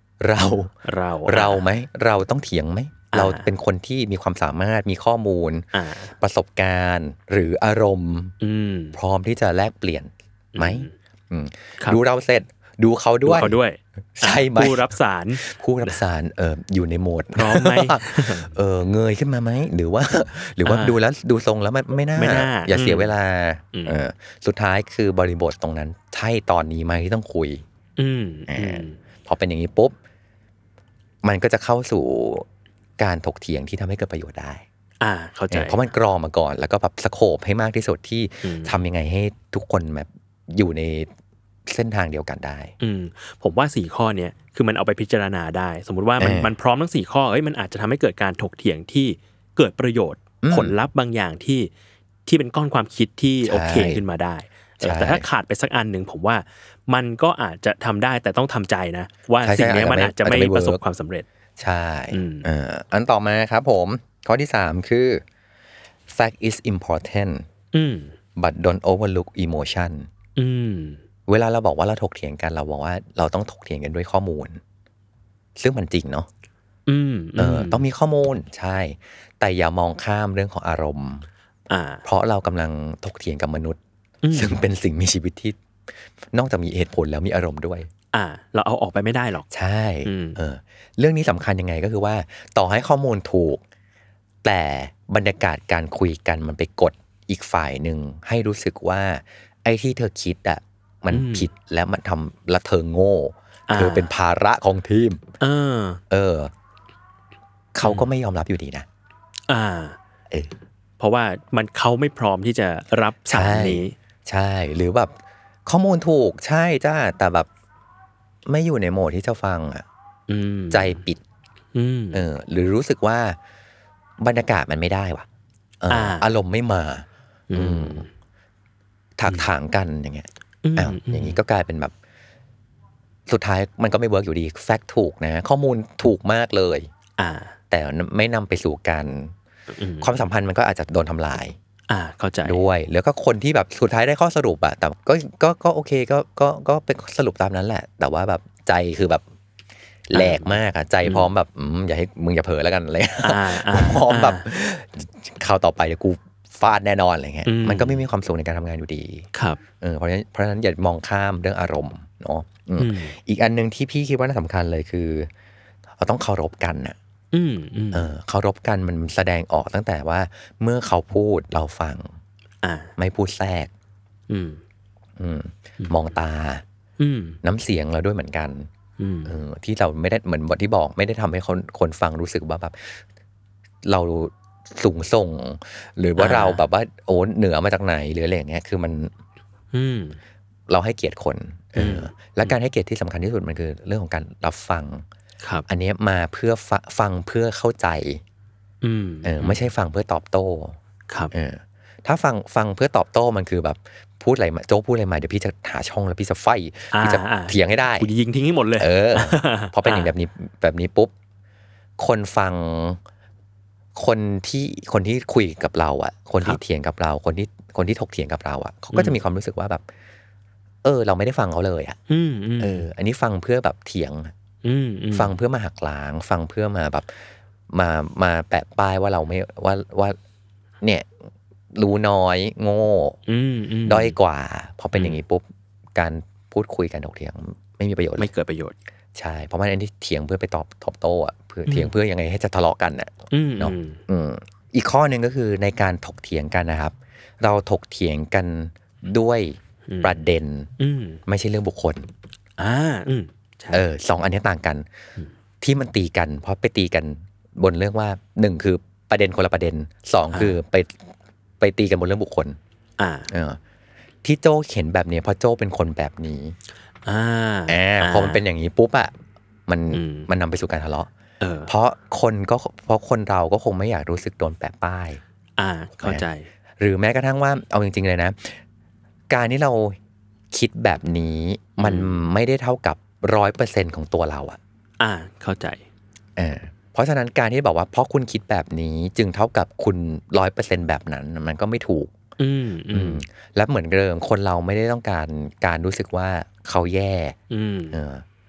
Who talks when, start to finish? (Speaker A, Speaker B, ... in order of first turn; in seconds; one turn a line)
Speaker A: 0.2-0.7
Speaker B: 0.8-1.6
Speaker A: 1.2-8.3
Speaker B: 3.1-3.5
Speaker B: 5.7-6.1
Speaker B: 8.4-9.0
Speaker A: 8.9-13.5
Speaker B: 10.5-10.9
Speaker B: 13.2-16.0
Speaker A: 14.1-27.6
Speaker B: 17.4-18.5
Speaker B: 20.6-21.0
Speaker B: 22.1-23.1
Speaker B: 28.0-29.0
Speaker A: 28.5-29.9
Speaker A: 31.2-32.5
Speaker A: 33.0-34.6
Speaker B: 35.0-35.8
Speaker A: 35.5-41.1
Speaker B: 38.4-38.7
Speaker A: 41.7-42.7
Speaker B: 42.8-51.7
Speaker A: 46.2-46.5
Speaker A: 50.4-50.7
Speaker B: 52.2-61.2
Speaker A: 53.4-54.0
Speaker A: 54.8-55.2
Speaker A: 59.4-60.8
Speaker A: 61.6-65.2
Speaker B: 62.1-62.5
Speaker A: 66.1-67.5
Speaker B: 67.7-68.1
Speaker A: 68.4-70.1
Speaker B: 70.3-71.0
Speaker A: 71.3-74.6
Speaker A: 75.6-76.3
Speaker B: 76.9-77.8
Speaker A: 77.4-81.3
Speaker B: 81.7-82.0
Speaker A: 82.0-83.8
Speaker B: 84.2-84.6
Speaker A: 84.3-85.6
Speaker A: 86.3-87.9
Speaker B: 88.1-89.5
Speaker A: 89.5-93.6
Speaker B: 90.0-90.4
Speaker A: 94.4-105.2
Speaker B: 101.1-101.5
Speaker B: 103.7-104.1
Speaker B: 105.4-106.0
Speaker A: 106.1-106.5
Speaker A: 107.7-108.8
Speaker B: 107.8-108.1
Speaker B: 109.5-110.0
Speaker B: 111.0-114.0
Speaker A: 113.3-117.5
Speaker A: 118.5-119.8
Speaker B: 120.3-121.0
Speaker A: 120.7-121.2
Speaker B: 121.7-122.2
Speaker A: 122.1-123.4
Speaker A: 124.2-125.2
Speaker A: 125.8-128.0
Speaker B: 125.9-126.3
Speaker B: 127.5-128.1
Speaker A: 129.2-131.9
Speaker B: 130.6-131.4
Speaker A: 133.3-136.9
Speaker B: 137.2-137.6
Speaker A: 137.7-139.3
Speaker B: 139.7-140.1
Speaker A: 140.0-141.6
Speaker B: 141.9-142.6
Speaker A: 142.4-149.2
Speaker A: 150.1-159.3
Speaker B: 150.1-151.3
Speaker B: 153.2-154.4
Speaker B: 157.4-158.0
Speaker B: 159.3-159.6
Speaker A: 159.8-165.3
Speaker B: 162.8-163.1
Speaker A: 166.0-166.9
Speaker B: 167.3-168.1
Speaker A: 167.9-172.1
Speaker B: 172.6-172.9
Speaker A: 173.0-173.7
Speaker B: 174.3-174.6
Speaker A: 175.2-176.6
Speaker B: 177.0-177.4
Speaker A: 177.4-178.7
Speaker B: 179.0-179.3
Speaker A: 179.2-183.0
Speaker A: 183.8-189.1
Speaker B: 186.2-186.6
Speaker B: 189.7-190.2
Speaker A: 190.7-195.0
Speaker B: 191.8-192.5
Speaker A: 195.7-198.2
Speaker B: 198.8-199.6
Speaker A: 199.2-200.8
Speaker A: 201.3-208.1
Speaker B: 206.9-210.1
Speaker A: 208.8-211.1
Speaker A: 212.0-213.0
Speaker A: 213.9-219.8
Speaker B: 218.9-219.2
Speaker A: 220.8-222.0
Speaker B: 222.1-222.8
Speaker A: 222.6-224.3
Speaker B: 224.6-225.3
Speaker A: 225.1-227.2
Speaker A: 227.7-230.2
Speaker A: 230.8-231.1
Speaker A: 231.7-233.2
Speaker B: 233.3-234.2
Speaker A: 233.9-238.3
Speaker B: 234.9-235.2
Speaker B: 238.2-238.7
Speaker A: 239.1-250.7
Speaker B: 241.7-241.9
Speaker B: 243.3-244.0
Speaker B: 249.9-250.2
Speaker B: 250.8-251.2
Speaker A: 251.2-252.1
Speaker B: 252.6-253.8
Speaker A: 253.7-254.8
Speaker A: 255.6-261.1
Speaker A: 261.6-262.6
Speaker B: 263.0-263.3
Speaker A: 263.3-263.6
Speaker A: 264.2-266.6
Speaker B: 267.0-268.4
Speaker A: 267.7-269.1
Speaker A: 269.7-271.1
Speaker B: 269.9-270.3
Speaker B: 271.4-271.7
Speaker A: 271.7-275.2
Speaker B: 275.6-276.5
Speaker A: 276.0-276.2
Speaker A: 276.8-278.6
Speaker A: 279.3-280.0
Speaker A: 280.5-284.6
Speaker B: 281.8-282.2
Speaker B: 285.0-285.8
Speaker A: 286.4-292.1
Speaker B: 292.4-293.2
Speaker A: 292.9-297.4
Speaker B: 297.5-298.0
Speaker A: 297.9-298.2